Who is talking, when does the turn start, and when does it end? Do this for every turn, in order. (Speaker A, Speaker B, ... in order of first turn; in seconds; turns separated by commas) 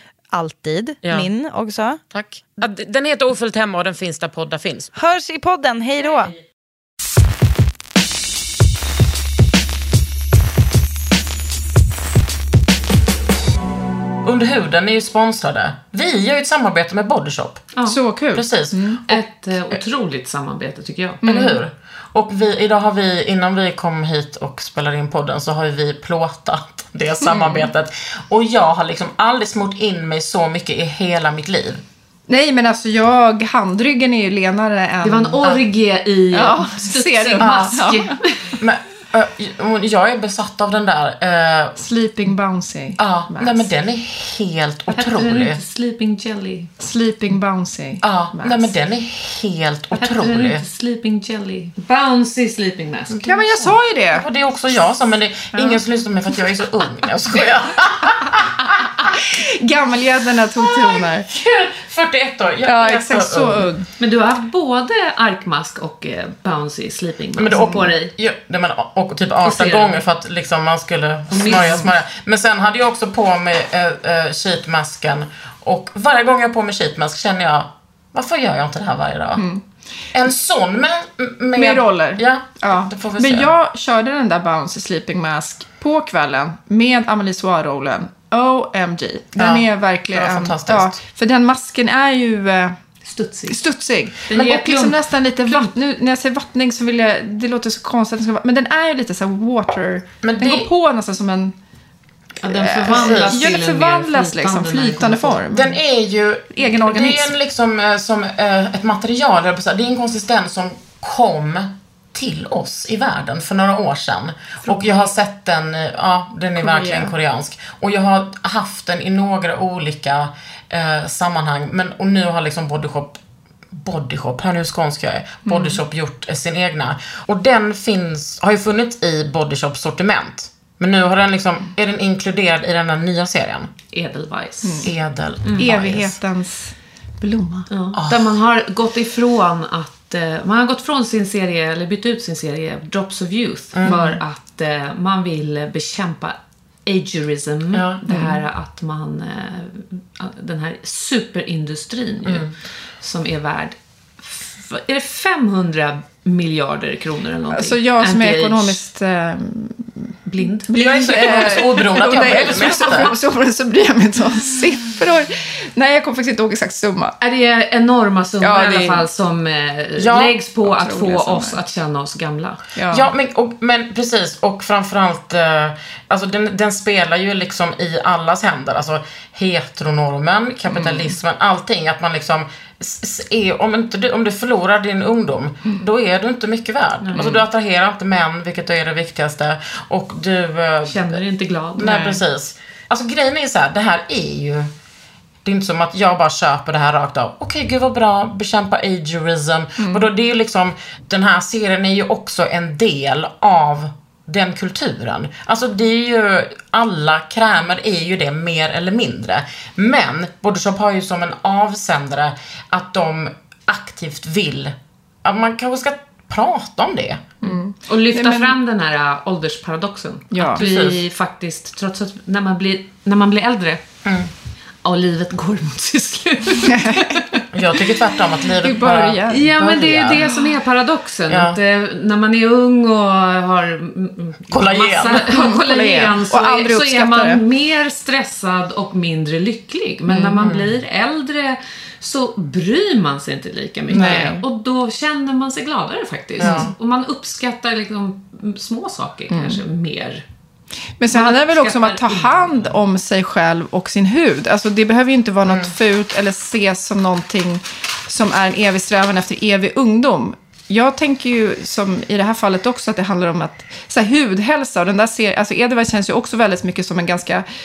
Speaker A: 0.3-2.0, Speaker B: 1.0-1.3, Speaker B: 2.1-4.9, Speaker A: 5.0-6.3, Speaker B: 14.2-17.7, Speaker C: 17.8-19.0, Speaker B: 18.3-19.2, Speaker D: 19.1-21.2, Speaker C: 21.2-21.6, Speaker B: 21.2-31.8, Speaker C: 27.2-27.7, Speaker C: 32.3-35.4, Speaker D: 35.0-38.2, Speaker C: 36.3-38.1, Speaker B: 37.4-37.8, Speaker B: 38.6-41.8, Speaker C: 41.8-43.7, Speaker B: 43.0-45.6, Speaker D: 44.9-46.7, Speaker C: 46.8-48.7, Speaker B: 48.0-50.6, Speaker D: 49.9-53.3, Speaker B: 53.1-58.5, Speaker C: 53.2-54.3, Speaker C: 55.5-55.8, Speaker C: 59.0-61.3, Speaker B: 60.6-63.7, Speaker C: 62.6-63.9, Speaker D: 64.0-68.1, Speaker B: 67.4-79.4, Speaker D: 69.4-70.0, Speaker D: 71.3-71.9, Speaker C: 79.3-79.6, Speaker B: 80.1-83.5, Speaker C: 81.5-92.7, Speaker B: 89.4-91.0, Speaker D: 93.0-93.6, Speaker C: 93.5-101.5, Speaker D: 94.3-95.7, Speaker B: 100.2-100.7, Speaker D: 102.4-105.4, Speaker C: 102.4-105.8, Speaker B: 102.9-103.4, Speaker B: 105.5-123.2, Speaker C: 106.5-107.3, Speaker D: 114.7-115.1, Speaker C: 116.6-117.1, Speaker B: 123.7-133.7, Speaker C: 125.5-125.8, Speaker D: 133.9-134.9, Speaker C: 134.6-134.9, Speaker B: 134.8-136.2, Speaker D: 135.4-135.7, Speaker C: 135.6-137.7, Speaker D: 137.7-158.8, Speaker B: 137.9-138.3, Speaker B: 143.7-144.0, Speaker C: 143.8-144.2, Speaker B: 147.7-148.0, Speaker C: 148.1-148.4, Speaker B: 152.2-152.5, Speaker C: 157.5-167.2, Speaker D: 160.3-161.8, Speaker B: 160.7-163.1, Speaker D: 167.2-172.6, Speaker C: 168.4-169.1, Speaker B: 170.0-170.4, Speaker C: 170.6-171.6, Speaker C: 172.7-173.1, Speaker B: 172.9-191.2, Speaker D: 180.7-181.2, Speaker D: 187.0-187.4, Speaker D: 190.9-192.2, Speaker B: 191.8-194.7, Speaker B: 195.4-217.3, Speaker C: 199.8-200.0, Speaker C: 217.4-218.6, Speaker D: 217.8-223.8, Speaker C: 220.3-220.6, Speaker B: 220.5-221.0, Speaker B: 224.0-224.3, Speaker D: 224.8-228.2, Speaker C: 226.6-227.4, Speaker B: 227.5-230.3, Speaker C: 228.6-229.5, Speaker D: 229.3-250.2, Speaker B: 231.3-231.6, Speaker B: 234.5-235.2, Speaker C: 235.1-237.4, Speaker B: 240.3-240.7, Speaker C: 243.9-244.4, Speaker B: 243.9-244.3, Speaker C: 246.4-246.7, Speaker B: 246.4-246.7, Speaker C: 249.3-249.6, Speaker C: 251.0-267.4, Speaker D: 251.1-252.8, Speaker B: 255.4-255.7